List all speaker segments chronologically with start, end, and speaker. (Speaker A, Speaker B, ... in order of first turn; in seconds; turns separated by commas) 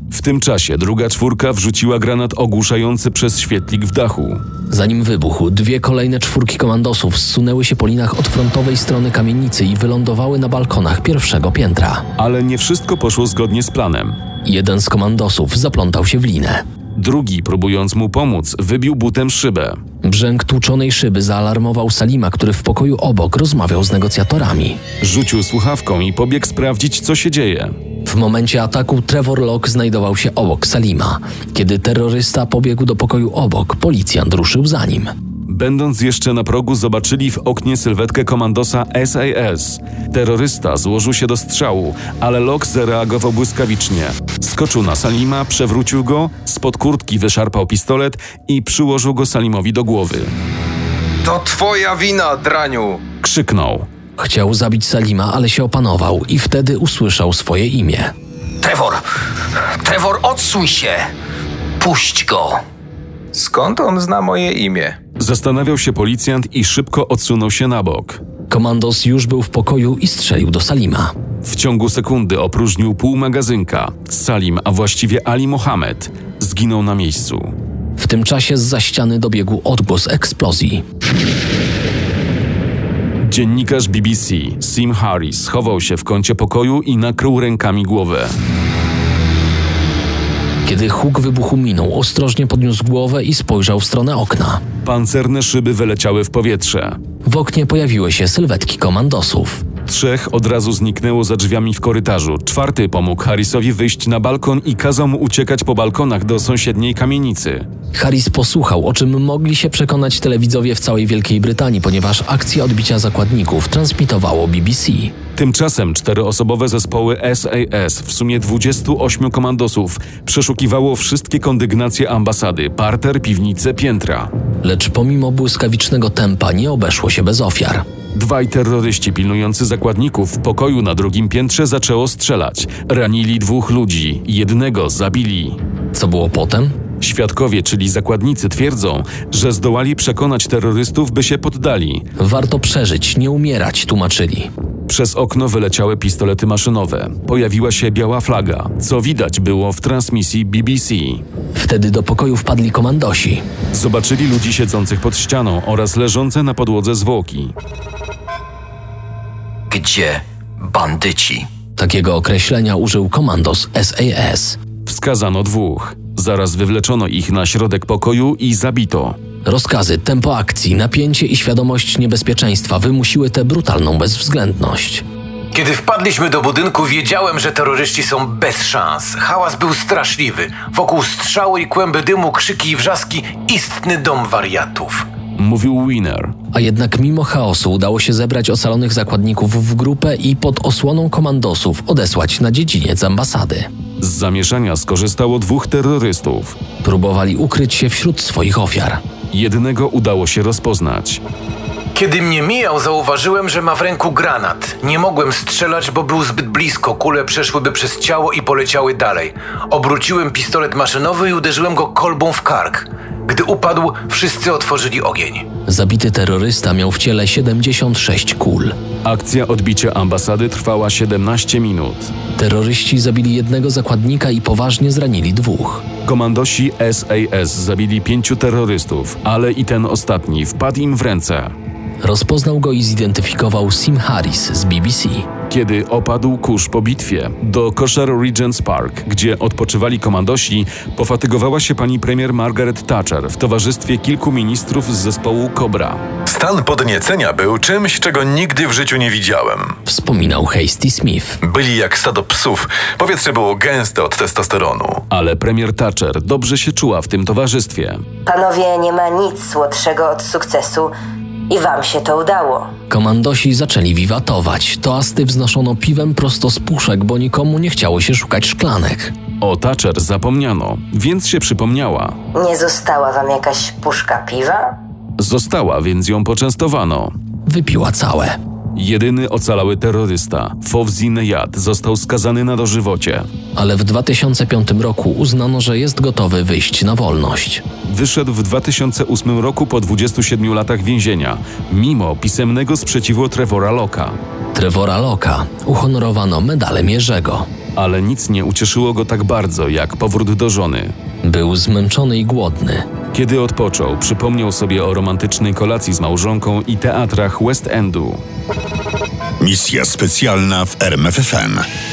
Speaker A: 0.1-4.4, Speaker B: 4.7-12.0, Speaker A: 12.2-14.2, Speaker B: 14.4-16.6, Speaker A: 17.0-19.8, Speaker B: 20.0-24.8, Speaker A: 25.0-27.7, Speaker B: 28.1-35.1, Speaker A: 35.5-50.3, Speaker C: 51.2-53.0, Speaker A: 53.2-53.9, Speaker B: 54.2-58.1, Speaker D: 58.6-59.0, Speaker D: 59.8-61.1, Speaker D: 61.8-62.6, Speaker C: 63.3-65.0, Speaker A: 65.2-68.2, Speaker B: 68.5-71.1, Speaker A: 71.4-77.5, Speaker B: 78.0-80.8, Speaker A: 83.2-88.3, Speaker B: 90.6-94.6, Speaker A: 94.8-97.0, Speaker B: 97.2-99.6, Speaker A: 99.8-107.7, Speaker B: 107.9-115.1, Speaker A: 115.3-124.3, Speaker B: 124.6-127.8, Speaker A: 128.1-135.6, Speaker B: 135.9-136.8, Speaker A: 137.0-142.1, Speaker B: 142.2-144.5, Speaker A: 144.9-151.2, Speaker B: 151.6-153.4, Speaker A: 153.7-157.5, Speaker D: 159.7-161.5, Speaker B: 161.8-164.6, Speaker A: 164.8-169.2, Speaker B: 169.4-175.0, Speaker E: 175.5-185.1, Speaker A: 185.4-186.3, Speaker B: 186.5-193.7, Speaker A: 194.0-196.6, Speaker B: 196.8-199.0, Speaker A: 199.3-201.2, Speaker E: 201.9-215.4, Speaker B: 215.7-218.8, Speaker A: 219.0-222.1, Speaker B: 222.4-225.8, Speaker A: 226.0-231.5, Speaker B: 232.0-235.3, Speaker A: 235.5-246.0, Speaker F: 246.3-249.6, Speaker B: 249.8-251.4, Speaker F: 251.4-255.0, Speaker A: 255.1-258.0, Speaker G: 258.3-260.9, Speaker G: 261.5-262.7, Speaker B: 262.9-269.1, Speaker A: 269.4-272.1, Speaker G: 272.4-274.7, Speaker A: 275.2-277.1, Speaker B: 277.5-278.4, Speaker A: 278.7-283.3, Speaker B: 283.6-287.6, Speaker A: 287.9-294.2, Speaker B: 294.5-297.5, Speaker A: 297.8-300.9, Speaker B: 301.2-302.9, Speaker A: 303.1-308.2, Speaker H: 309.4-311.6